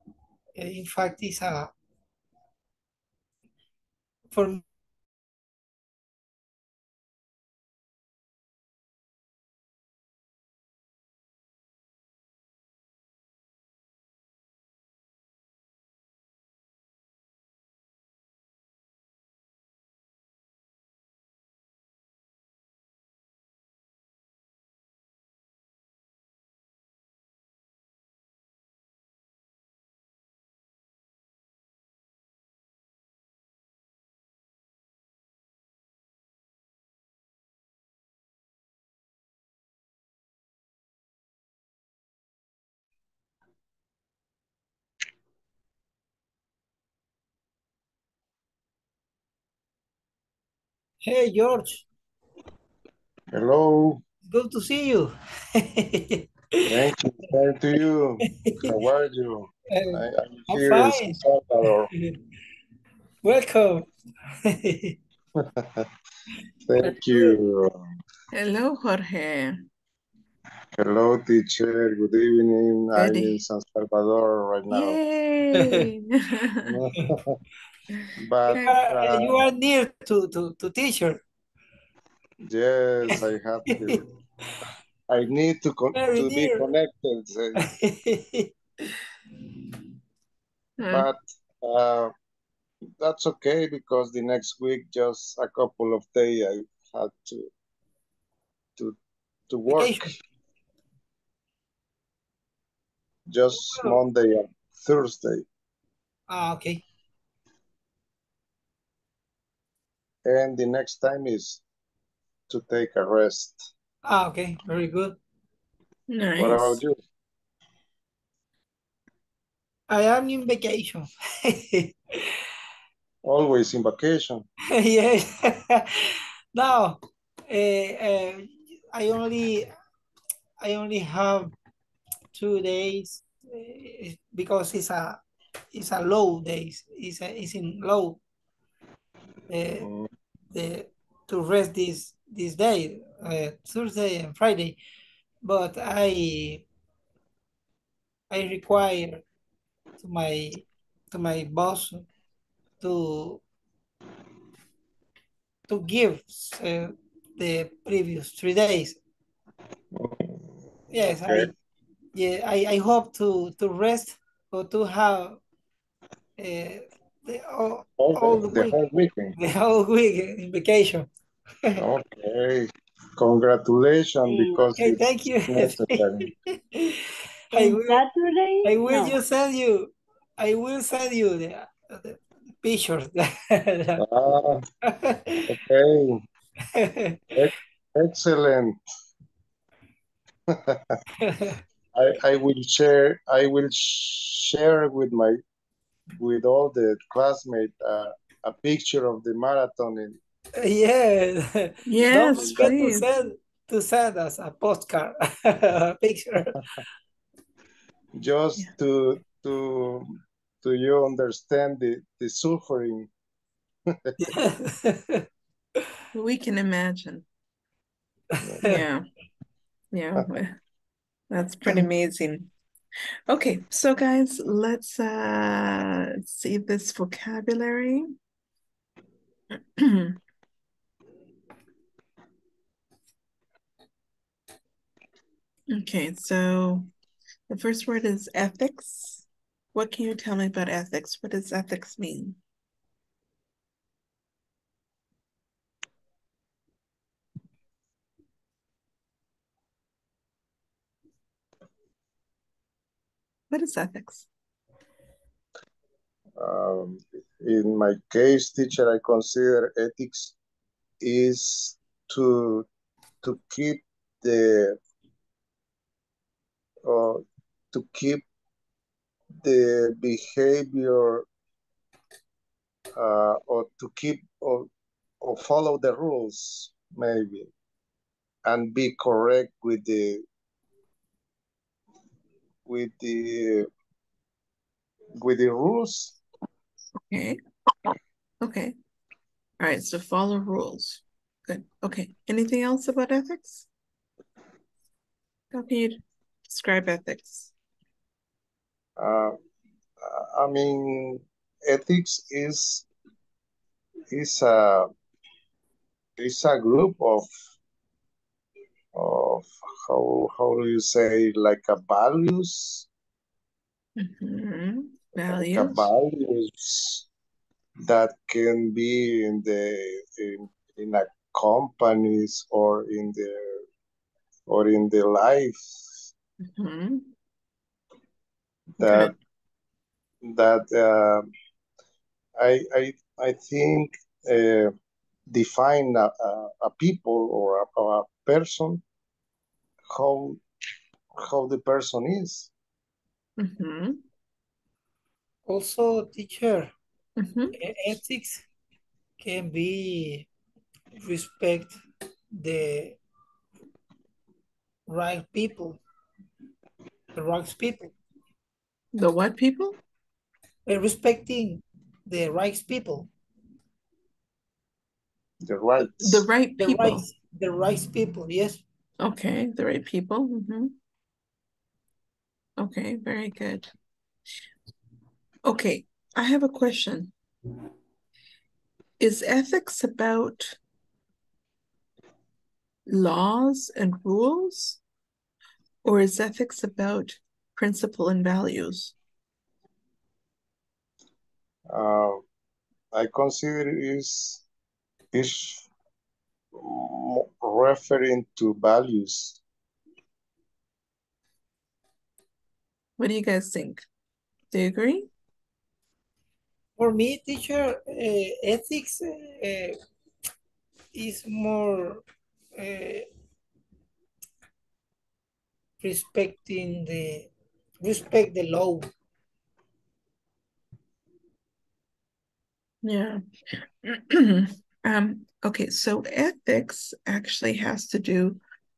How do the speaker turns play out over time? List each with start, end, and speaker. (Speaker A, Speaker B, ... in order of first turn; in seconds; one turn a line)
Speaker A: 0.6-1.7
Speaker A: 4.3-4.6
Speaker A: 51.0-51.9
Speaker B: 53.3-54.0
Speaker A: 54.3-56.9
Speaker B: 56.7-61.9
Speaker A: 58.2-58.8
Speaker A: 59.7-61.2
Speaker A: 61.8-62.2
Speaker A: 63.2-63.9
Speaker A: 64.5-65.0
Speaker B: 65.4-65.9
Speaker B: 66.7-67.8
Speaker A: 66.9-67.3
Speaker C: 68.3-69.5
Speaker B: 70.7-75.0
Speaker C: 73.0-73.4
Speaker C: 74.7-76.8
Speaker A: 75.6-75.9
Speaker B: 76.7-77.4
Speaker B: 78.2-79.5
Speaker A: 78.5-81.2
Speaker C: 78.5-78.8
Speaker B: 82.5-84.0
Speaker A: 83.7-84.0
Speaker B: 85.1-87.6
Speaker A: 86.0-86.7
Speaker A: 87.6-88.5
Speaker C: 90.8-91.1
Speaker B: 90.9-92.1
Speaker B: 93.0-97.5
Speaker B: 99.5-100.2
Speaker A: 99.7-100.2
Speaker B: 103.3-105.5
Speaker A: 103.5-104.0
Speaker A: 106.3-106.8
Speaker B: 110.2-111.6
Speaker B: 112.5-113.7
Speaker A: 114.0-115.2
Speaker C: 116.1-116.8
Speaker B: 116.4-117.0
Speaker A: 119.9-122.4
Speaker B: 123.2-124.5
Speaker A: 124.7-129.7
Speaker A: 130.6-131.5
Speaker A: 132.3-135.2
Speaker A: 135.7-138.2
Speaker A: 139.5-139.9
Speaker B: 139.8-140.1
Speaker A: 140.5-144.8
Speaker A: 145.4-146.7
Speaker A: 148.3-149.2
Speaker A: 150.0-152.1
Speaker A: 152.8-153.4
Speaker A: 155.7-159.0
Speaker B: 159.9-160.3
Speaker A: 160.9-161.5
Speaker B: 160.9-161.5
Speaker A: 162.2-165.4
Speaker A: 166.4-168.8
Speaker B: 168.0-169.3
Speaker A: 169.4-171.1
Speaker B: 171.8-176.3
Speaker D: 174.3-174.7
Speaker A: 174.8-178.0
Speaker D: 177.5-179.2
Speaker A: 178.6-184.0
Speaker B: 184.0-184.7
Speaker A: 184.8-185.5
Speaker B: 185.5-186.2
Speaker A: 186.8-187.2
Speaker B: 187.3-188.8
Speaker B: 190.5-191.0
Speaker A: 191.2-191.6
Speaker B: 191.9-195.4
Speaker B: 196.2-200.2
Speaker A: 200.6-206.6
Speaker C: 201.9-203.1
Speaker B: 202.4-202.8
Speaker B: 208.2-213.1
Speaker B: 213.9-214.3
Speaker A: 214.2-215.3
Speaker C: 216.1-217.2
Speaker C: 218.6-219.1
Speaker C: 219.9-220.6
Speaker C: 221.3-222.5
Speaker C: 223.3-228.1
Speaker C: 229.8-230.2
Speaker C: 235.7-236.9
Speaker C: 237.5-242.4
Speaker C: 253.5-254.3
Speaker B: 256.4-260.4
Speaker B: 261.0-262.7
Speaker B: 263.2-264.8
Speaker B: 266.9-268.2
Speaker B: 269.4-271.3
Speaker B: 272.9-274.7
Speaker B: 275.2-277.5
Speaker B: 278.4-280.2
Speaker B: 282.7-283.7
Speaker B: 285.2-286.2
Speaker C: 287.1-288.7
Speaker C: 289.6-293.7
Speaker C: 295.5-297.5
Speaker B: 299.0-299.4
Speaker B: 300.0-302.9
Speaker B: 304.1-304.9
Speaker B: 306.2-307.3
Speaker B: 308.9-312.9
Speaker C: 314.0-315.9
Speaker B: 315.2-317.1
Speaker B: 317.9-323.6
Speaker B: 324.5-326.1
Speaker C: 326.5-327.1
Speaker B: 328.8-329.1
Speaker C: 328.8-329.1
Speaker B: 330.2-331.3
Speaker B: 332.4-334.7
Speaker B: 335.3-338.8
Speaker B: 339.9-340.4
Speaker B: 341.2-342.5
Speaker C: 343.4-344.0
Speaker A: 345.5-346.7
Speaker C: 347.2-347.6
Speaker A: 347.6-348.4
Speaker A: 349.2-350.3
Speaker A: 351.0-351.8
Speaker A: 352.3-353.0
Speaker A: 354.9-355.8
Speaker A: 357.1-357.9
Speaker C: 358.9-359.8
Speaker A: 360.7-363.1
Speaker B: 365.4-366.3
Speaker C: 366.0-367.1
Speaker A: 366.6-368.6
Speaker C: 369.0-370.7
Speaker C: 372.6-373.7
Speaker C: 375.5-377.1
Speaker C: 379.0-380.6
Speaker C: 382.9-384.8
Speaker C: 385.8-388.9
Speaker B: 391.7-392.2
Speaker B: 392.9-394.4
Speaker B: 395.1-395.7
Speaker B: 396.6-399.4
Speaker C: 403.0-403.8
Speaker C: 404.5-405.1
Speaker A: 406.8-409.8
Speaker A: 410.9-412.0
Speaker A: 412.6-413.1
Speaker A: 415.8-417.3
Speaker A: 417.8-418.9
Speaker C: 422.8-428.4